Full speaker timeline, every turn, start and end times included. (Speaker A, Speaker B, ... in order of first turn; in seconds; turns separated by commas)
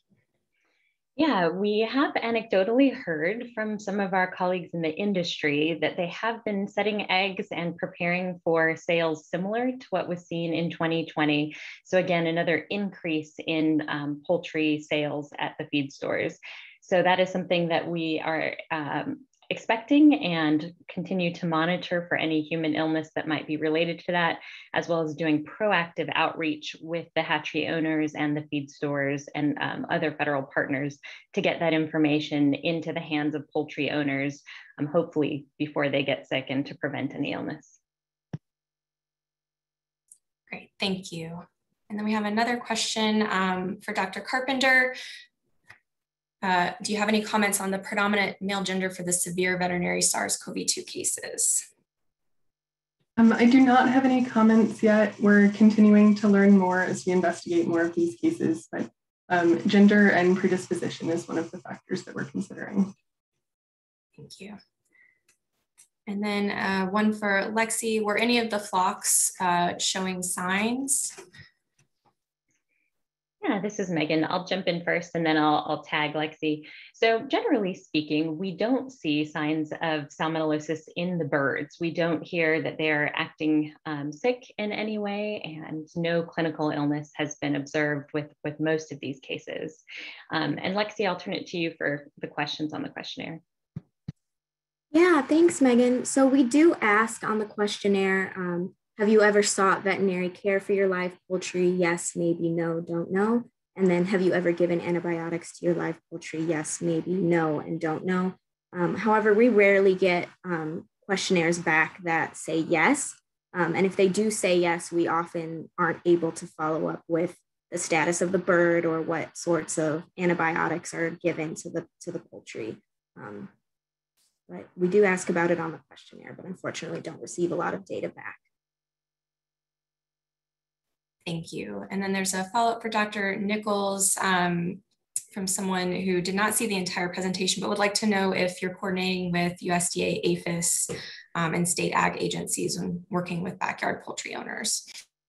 Speaker A: 1.2-37.8, Speaker B: 40.5-45.0, Speaker B: 46.4-51.7, Speaker C: 53.2-62.9, Speaker B: 64.2-64.6, Speaker B: 66.1-71.2, Speaker A: 73.4-93.4, Speaker D: 94.9-123.5, Speaker D: 124.5-128.4, Speaker B: 131.3-134.8, Speaker B: 135.3-145.0